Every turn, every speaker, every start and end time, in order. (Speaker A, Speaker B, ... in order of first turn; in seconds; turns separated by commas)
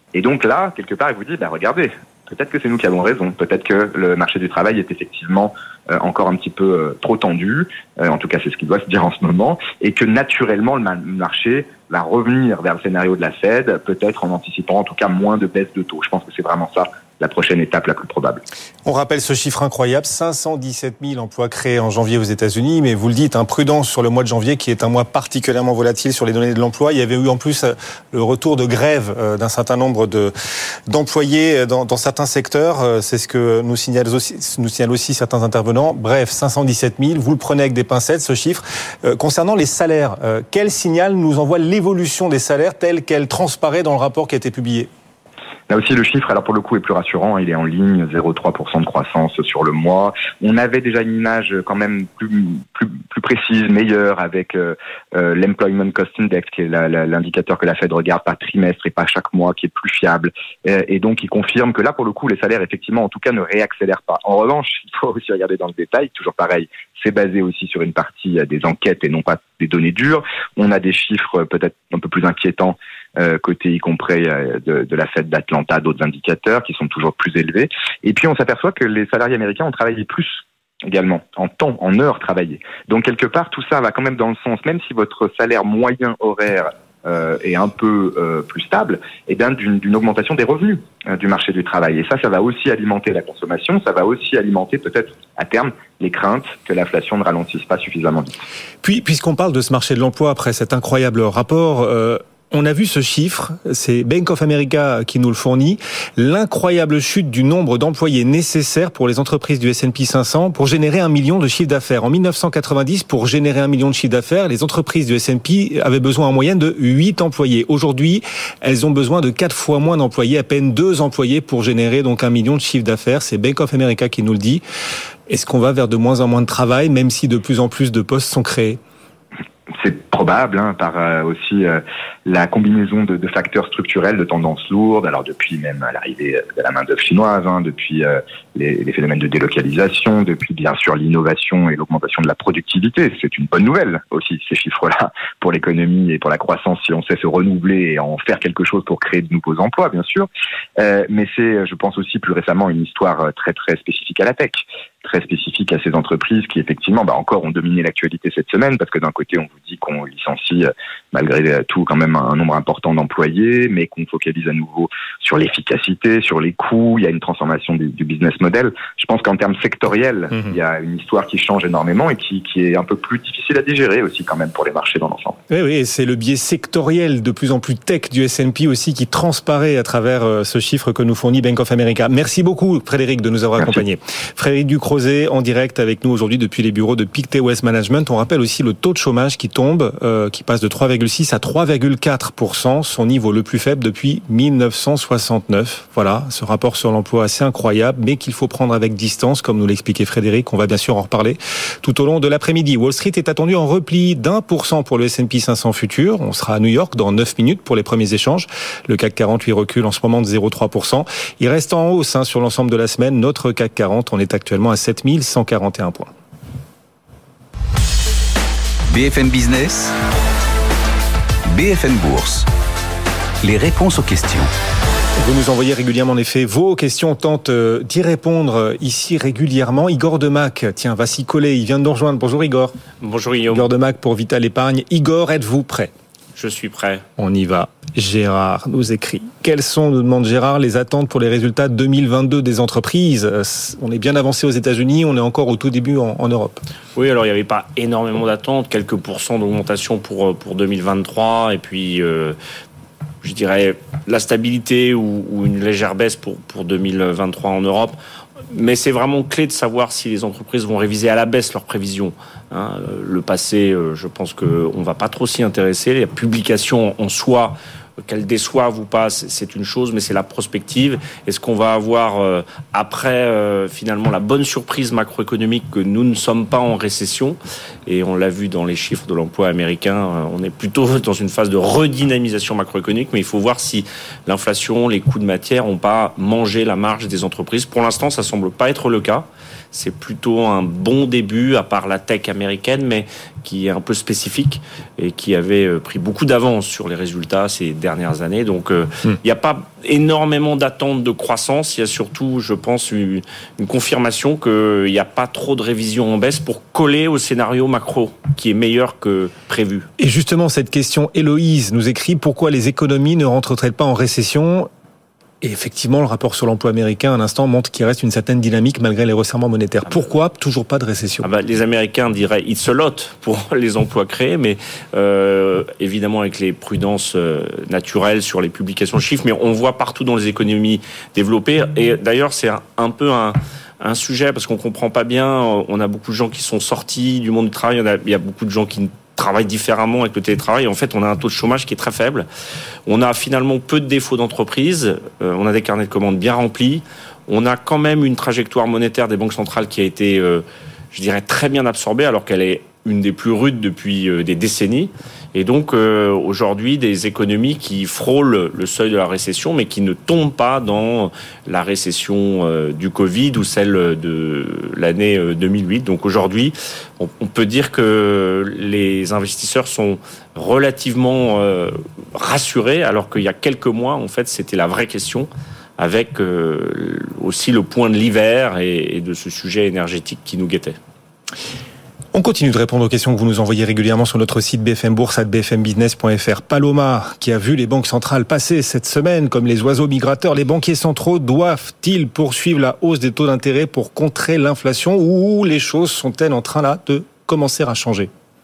Speaker A: 0.1-18.4, Speaker B: 18.8-30.3, Speaker B: 30.9-44.9, Speaker A: 45.7-98.3, Speaker B: 98.8-124.6, Speaker B: 125.3-128.8, Speaker A: 129.8-175.4, Speaker B: 175.5-216.1, Speaker C: 218.9-219.9, Speaker C: 221.5-222.5, Speaker C: 223.4-224.5, Speaker B: 225.2-232.7, Speaker D: 233.0-233.7, Speaker B: 233.5-235.9, Speaker D: 236.3-237.1, Speaker B: 237.2-246.6, Speaker D: 246.9-252.4, Speaker D: 253.2-258.0, Speaker D: 258.5-309.9, Speaker B: 310.0-314.7, Speaker B: 315.4-321.2, Speaker D: 321.2-342.2, Speaker D: 342.9-380.8, Speaker B: 382.1-398.1